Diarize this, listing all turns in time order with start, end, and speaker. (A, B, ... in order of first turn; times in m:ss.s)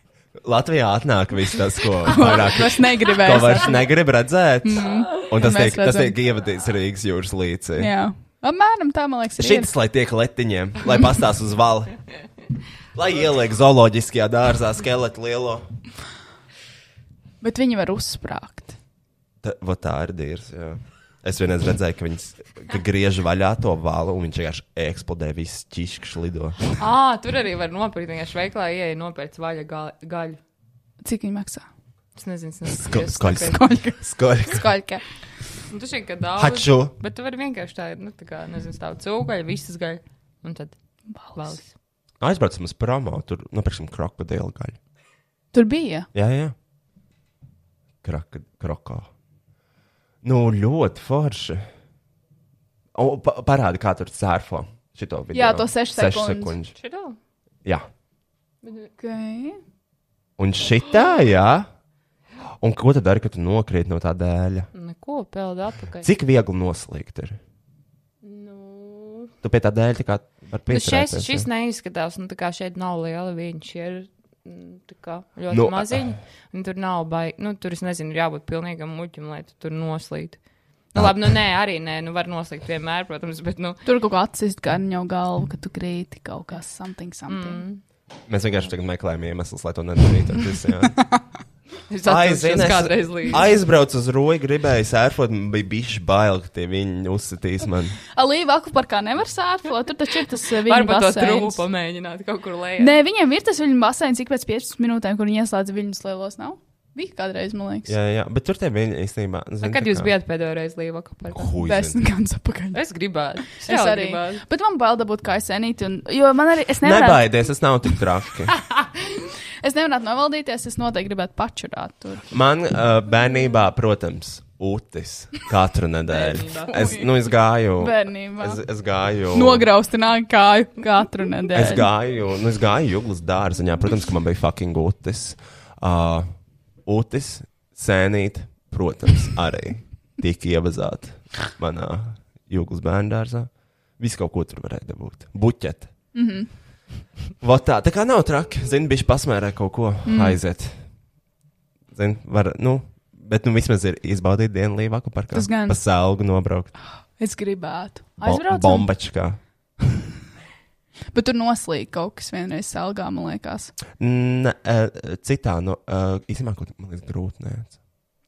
0:00.4-0:07.9 A
0:02.1-0:03.9 B
0:04.6-0:06.2 B
0:07.8-0:09.7 B
0:09.4-0:12.0 A
0:12.9-0:15.7 A
0:17.4-0:18.8 B
0:19.4-0:26.6 A
0:26.8-0:30.4 C
0:31.0-0:31.6 B
0:32.2-0:33.6 C
0:32.8-0:34.7 A
0:33.4-0:35.0 B
0:35.7-0:40.8 C
0:36.4-0:36.9 A
0:41.1-0:41.6 B
0:41.3-0:41.7 C
0:42.2-0:44.8 A
0:45.5-0:46.1 B
0:46.1-0:46.6 A
0:48.0-0:49.1 A
0:50.2-0:51.7 A
0:52.9-0:56.8 A
0:55.3-0:56.6 B
0:56.8-0:57.2 C
0:58.6-0:58.9 C
0:59.0-0:59.6 B
1:00.4-1:01.7 A
1:02.6-1:04.7 A
1:04.7-1:06.1 C
1:06.0-1:07.4 A
1:08.2-1:09.3 C
1:09.4-1:11.5 A
1:10.7-1:23.8 C
1:15.5-1:16.2 A
1:21.0-1:21.4 A
1:23.8-1:27.6 B
1:27.3-1:27.8 C
1:28.3-1:31.0 A
1:31.9-1:33.5 C
1:32.0-1:38.0 A
1:38.1-1:41.6 B
1:40.5-1:42.9 C
1:42.8-1:47.9 B
1:47.9-1:50.1 A
1:49.6-1:51.5 C
1:51.3-1:52.0 A
1:51.6-1:52.8 B
1:52.7-1:54.4 C
1:53.4-1:57.3 B
1:56.8-1:58.5 A
1:59.6-2:02.2 B
2:02.3-2:09.7 A
2:06.1-2:06.7 C
2:06.6-2:07.1 B
2:07.8-2:08.6 B
2:09.3-2:11.9 B
2:11.5-2:16.3 A
2:16.8-2:25.9 A
2:26.1-2:26.5 B
2:27.4-2:30.8 A
2:30.0-2:30.4 B
2:31.9-2:36.7 A
2:35.3-2:35.8 B
2:37.2-2:38.9 B
2:38.2-2:39.4 A
2:41.1-2:43.7 B
2:44.0-2:47.8 A